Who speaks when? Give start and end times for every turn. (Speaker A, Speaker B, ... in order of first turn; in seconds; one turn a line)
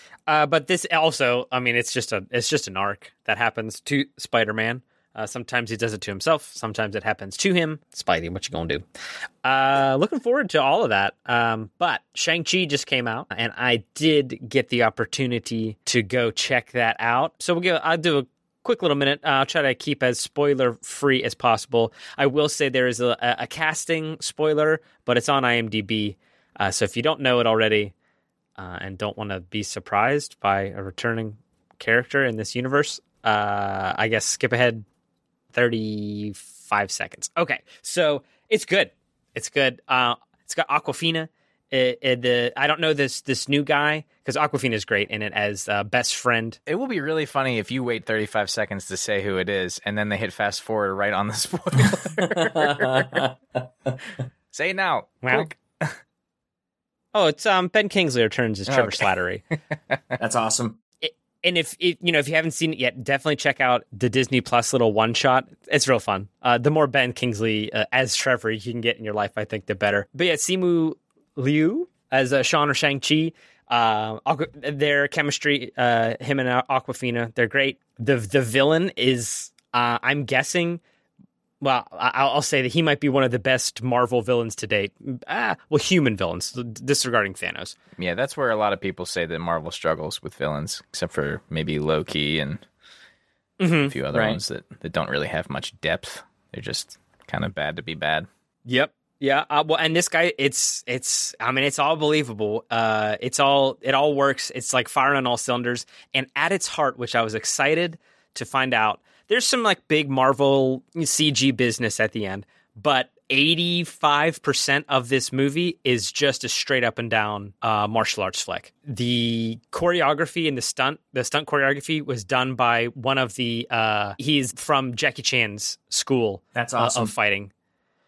Speaker A: 0.3-8.8
Speaker A: 9.4-27.9
Speaker A: 28.6-34.8
Speaker A: 35.5-46.6
Speaker B: 46.7-53.2
Speaker C: 52.2-53.3
Speaker B: 54.5-56.0
Speaker A: 55.2-55.5
Speaker A: 57.1-59.4
Speaker B: 58.7-59.0
Speaker C: 60.2-60.8
Speaker A: 61.0-80.8
Speaker A: 81.6-87.8
Speaker B: 88.0-92.6
Speaker A: 93.6-94.0
Speaker B: 93.8-98.3
Speaker C: 94.1-94.4
Speaker A: 98.7-127.5
Speaker C: 126.5-127.1